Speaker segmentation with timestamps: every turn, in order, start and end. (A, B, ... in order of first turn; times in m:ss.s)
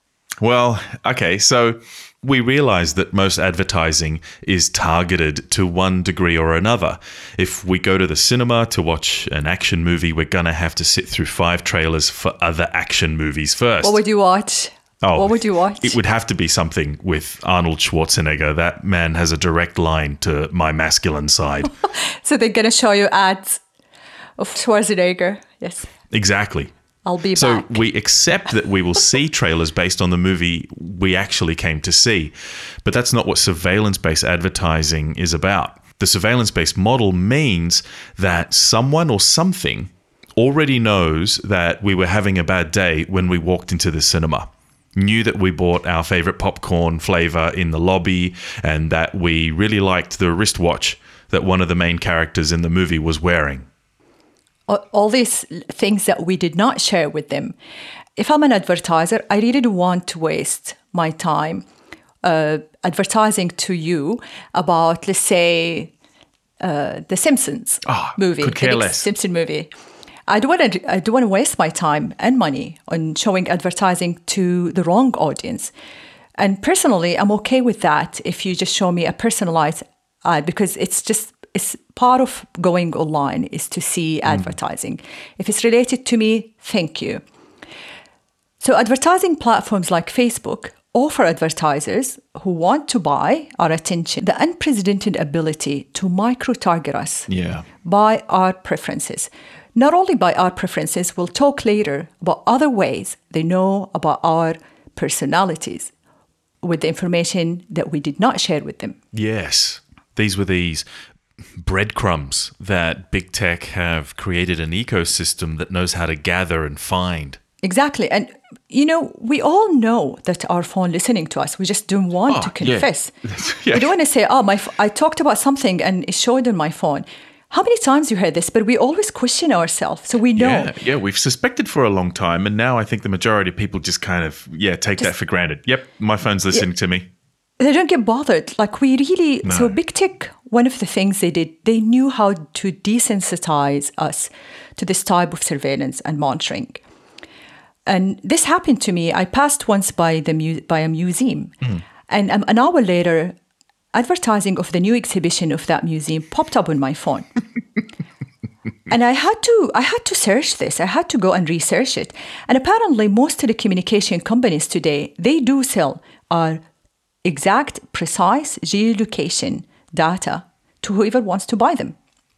0:00.4-0:14.0 A
0:13.8-0:16.0 B
0:15.0-0:21.7 A
0:21.8-0:23.6 B
0:24.4-0:25.9 B
0:26.1-0:26.7 A
0:27.0-0:27.8 B
0:27.4-0:53.7 A
0:54.7-0:57.5 B
0:58.2-1:01.6 B
1:02.2-1:05.9 B
1:06.6-1:09.7 B
1:07.8-1:09.1 A
1:10.3-1:15.7 B
1:16.4-1:27.2 B
1:24.3-1:24.5 A
1:28.6-1:37.3 B
1:37.3-1:37.7 A
1:37.8-1:45.9 B
1:46.6-1:49.0 B
1:49.1-1:50.8 A
1:51.6-1:57.4 A
1:57.6-2:03.1 B
2:02.3-2:03.9 A
2:03.7-2:10.7 B
2:10.3-2:17.1 A
2:17.6-2:26.8 B
2:19.4-2:19.7 A
2:27.8-2:33.4 B
2:33.9-2:37.3 B
2:38.9-2:46.6 B
2:47.2-2:52.0 B